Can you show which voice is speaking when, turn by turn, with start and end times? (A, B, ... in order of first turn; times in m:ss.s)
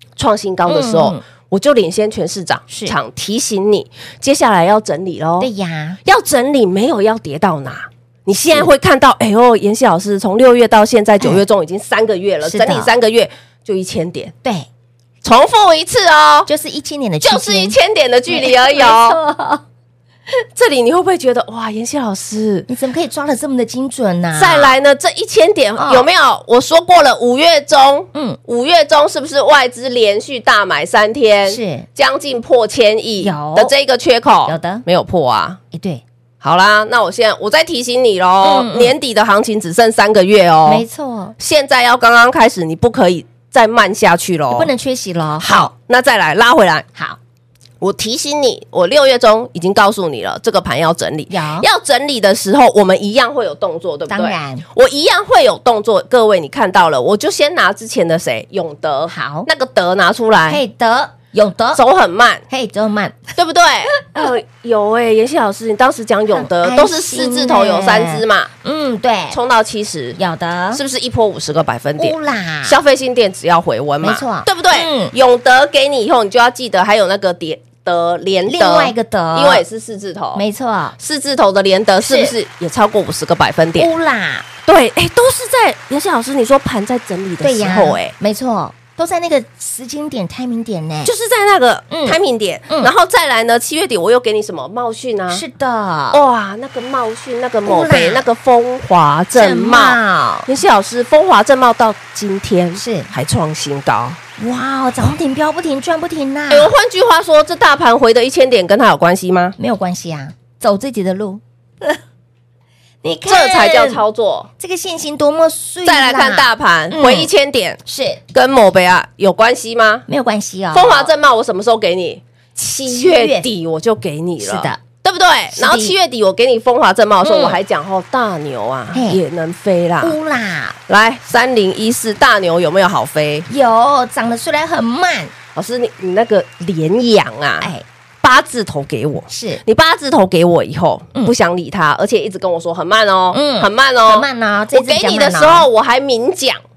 0:00.2-0:05.5 A
0:00.7-0:01.2 B
0:02.7-0:03.0 B
0:05.4-0:06.0 B
0:06.0-0:14.3 A
0:12.4-0:12.9 B
0:15.2-0:16.5 A
0:16.5-0:17.8 B
0:17.2-0:19.2 A
0:18.3-0:19.6 B
0:20.5-0:22.7 A
0:22.7-0:24.7 B
0:24.4-0:35.6 A
0:25.8-0:26.1 B
0:31.4-0:31.9 B
0:33.2-0:33.7 B
0:34.4-0:34.8 B
0:35.7-0:36.0 B
0:36.4-0:40.8 A
0:38.4-0:38.9 B
0:40.6-0:41.3 B
0:41.4-0:44.7 A
0:44.5-0:45.7 B
0:45.4-0:46.9 A
0:47.8-1:00.6 A
0:51.3-0:51.7 B
0:54.1-0:54.6 B
0:59.1-0:59.5 B
1:00.5-1:01.8 B
1:01.7-1:02.4 A
1:02.5-1:03.3 B
1:03.4-1:08.5 A
1:06.3-1:09.4 B
1:09.3-1:10.2 A
1:10.2-1:10.8 B
1:10.7-1:20.4 A
1:12.0-1:12.8 B
1:14.0-1:15.1 B
1:18.5-1:19.6 B
1:20.3-1:21.0 B
1:21.0-1:23.9 A
1:22.0-1:22.3 B
1:23.8-1:24.4 B
1:24.6-1:28.1 A
1:27.4-1:31.1 B
1:31.0-1:35.4 A
1:31.9-1:32.2 B
1:35.3-1:36.2 B
1:36.1-1:44.2 A
1:37.6-1:38.3 B
1:39.3-1:40.5 B
1:42.8-1:43.1 B
1:44.4-1:46.7 B
1:46.5-1:49.5 A
1:49.6-1:52.0 B
1:53.0-1:54.0 B
1:53.3-1:54.5 A
1:54.6-1:57.3 B
1:55.8-1:57.8 A
1:57.8-1:58.2 B
1:58.3-2:00.0 A
2:00.1-2:01.1 B
2:00.7-2:02.2 A
2:02.6-2:03.5 B
2:02.7-2:10.2 A
2:04.4-2:04.8 B
2:05.5-2:05.9 B
2:07.2-2:07.6 B
2:08.9-2:09.2 B
2:10.0-2:10.8 B
2:10.9-2:13.5 A
2:13.5-2:15.3 B
2:15.5-2:26.6 A
2:19.3-2:19.6 B
2:23.3-2:25.7 B